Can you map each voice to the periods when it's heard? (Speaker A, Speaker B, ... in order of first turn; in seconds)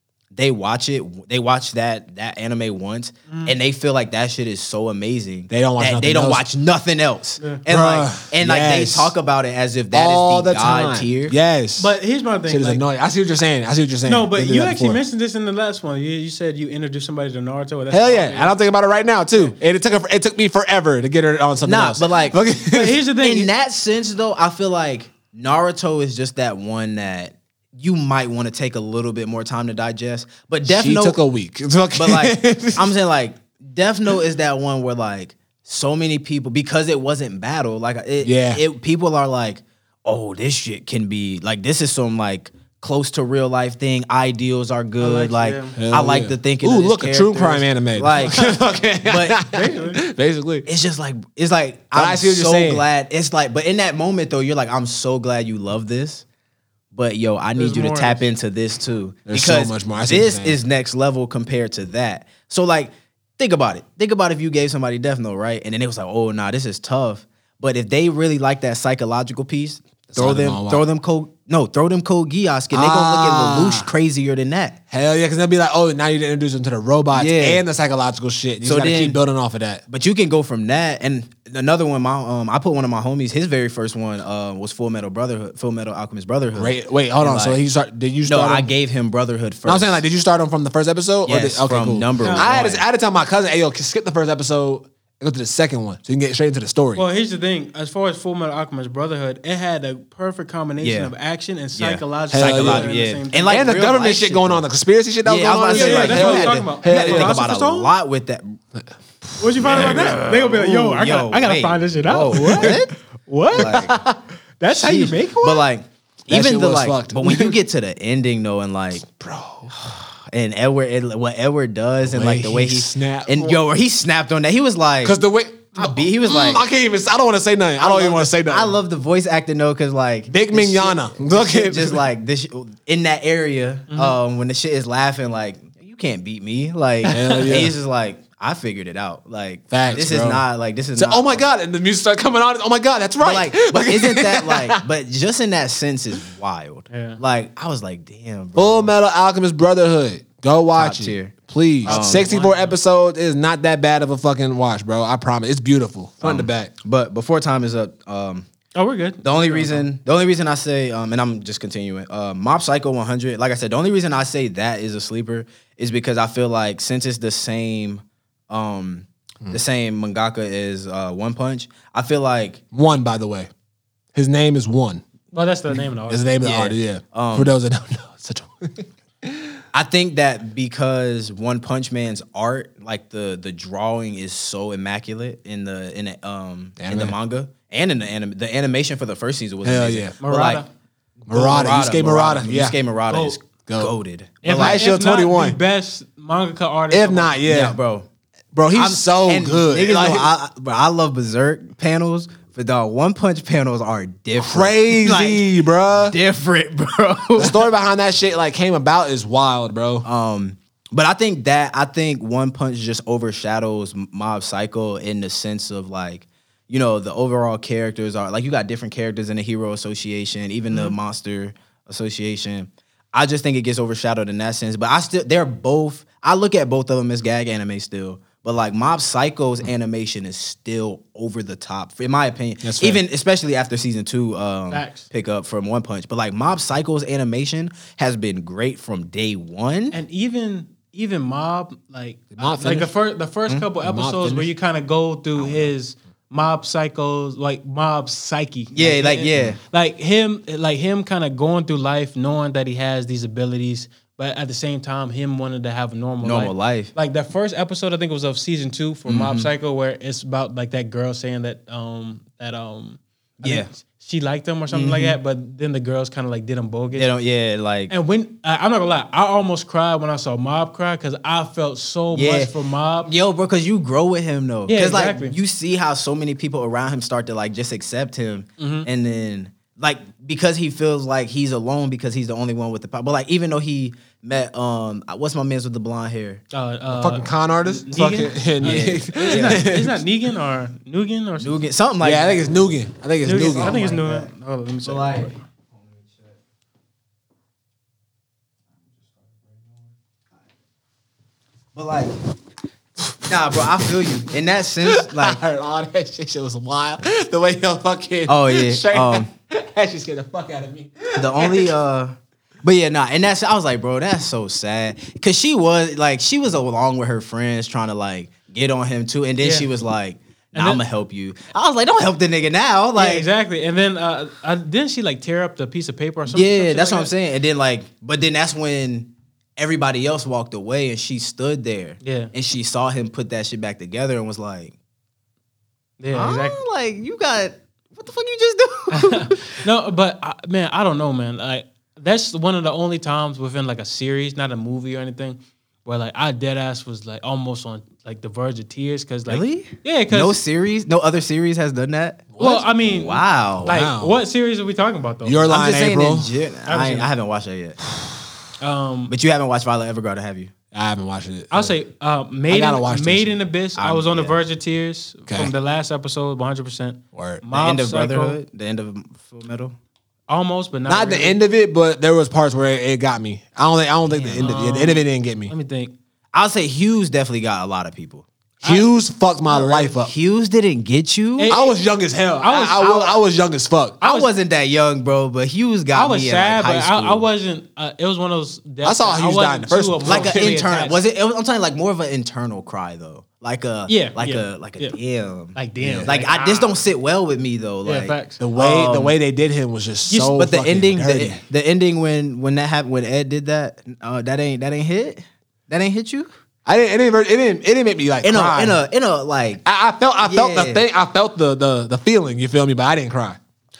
Speaker A: 0.3-11.3, 21.6-22.4, 23.2-31.2, 31.9-49.4, 50.6-56.2, 56.9-74.8, 77.1-77.6, 78.6-79.2, 79.9-87.6, 88.2-90.0, 91.2-92.8, 100.8-101.1, 101.7-104.6, 105.2-108.6, 109.6-112.9, 113.5-114.0, 114.7-119.0, 119.7-125.2, 125.8-126.6, 127.8-141.4, 143.2-148.9, 150.8-152.3, 156.2-158.5, 159.2-172.6, 176.4-177.5, 179.7-190.6, 191.3-194.8, 197.4-198.1, 198.7-207.6, 210.0-240.0, 248.7-249.6, 256.2-256.9, 259.1-259.5, 263.4-263.7, 264.7-265.2, 266.9-267.9, 272.1-272.5, 273.0-286.4, 288.6-289.7, 291.4-292.7, 293.2-294.3, 294.8-296.2, 301.7-302.1, 303.2-305.4, 308.3-309.3, 311.2-323.3, 326.3-334.7, 336.1-339.6, 349.3-352.3, 352.8-353.7, 355.5-357.8, 359.1-360.5, 363.8-364.4, 367.5-369.7, 376.3-378.3, 379.5-381.5, 382.6-383.2, 384.0-387.2, 390.0-399.1, 400.3-406.3, 408.2-409.6, 410.2-410.8
Speaker B: 3.3-3.6, 11.8-12.8, 14.1-18.5, 22.7-23.5, 45.0-45.7, 49.5-50.0, 57.5-58.3, 92.2-92.5, 97.0-103.6, 105.7-107.9, 109.4-113.9, 114.6-115.7, 133.9-134.2, 137.0-137.6, 146.9-147.2, 151.8-152.8, 158.7-159.9, 175.3-176.3, 190.2-190.7, 193.1-193.4, 194.4-197.4, 234.7-235.1, 239.9-267.1, 267.9-273.1, 274.7-275.4, 278.6-278.9, 286.5-291.6, 293.2-295.3, 319.4-319.7, 320.5-320.8, 322.9-327.1, 332.0-332.3, 336.0-336.6, 338.9-350.4, 352.4-355.5, 356.6-357.1, 358.6-359.1, 361.5-368.4, 370.3-371.4, 374.1-375.9, 381.4-381.8, 382.4-382.8, 384.0-384.3, 385.9-391.0, 393.9-395.0, 395.5-396.8, 397.8-398.4, 400.1-400.4
Speaker C: 5.5-6.4, 7.7-9.1, 9.9-11.9, 12.5-15.0, 17.9-23.0, 30.7-32.9, 38.2-38.6, 45.8-50.6, 51.9-52.8, 59.3-60.6, 70.1-70.8, 72.7-73.9, 74.9-79.8, 86.5-88.7, 89.7-97.0, 102.3-102.9, 103.5-107.4, 109.3-110.2, 112.3-112.8, 113.5-114.2, 116.3-117.6, 119.0-119.7, 122.0-123.6, 125.0-128.7, 130.3-132.0, 137.1-137.7, 139.7-140.4, 140.9-144.8, 148.6-156.7, 172.7-173.5, 174.1-175.0, 176.1-179.6, 186.8-187.1, 189.6-190.2, 191.3-192.8, 193.7-193.9, 194.4-195.6, 196.9-197.8, 198.5-200.3, 204.4-206.2, 207.4-210.1, 232.6-233.0, 242.3-242.9, 243.8-244.5, 286.9-290.0, 292.0-293.8, 303.6-304.2, 304.8-311.7, 352.3-352.7, 353.6-354.2, 355.2-356.3, 360.7-361.7, 362.5-363.4, 367.1-367.4, 370.9-375.5, 378.6-380.1, 381.5-384.0, 388.8-390.6, 395.8-396.1, 398.4-401.4, 406.6-408.8, 409.6-413.4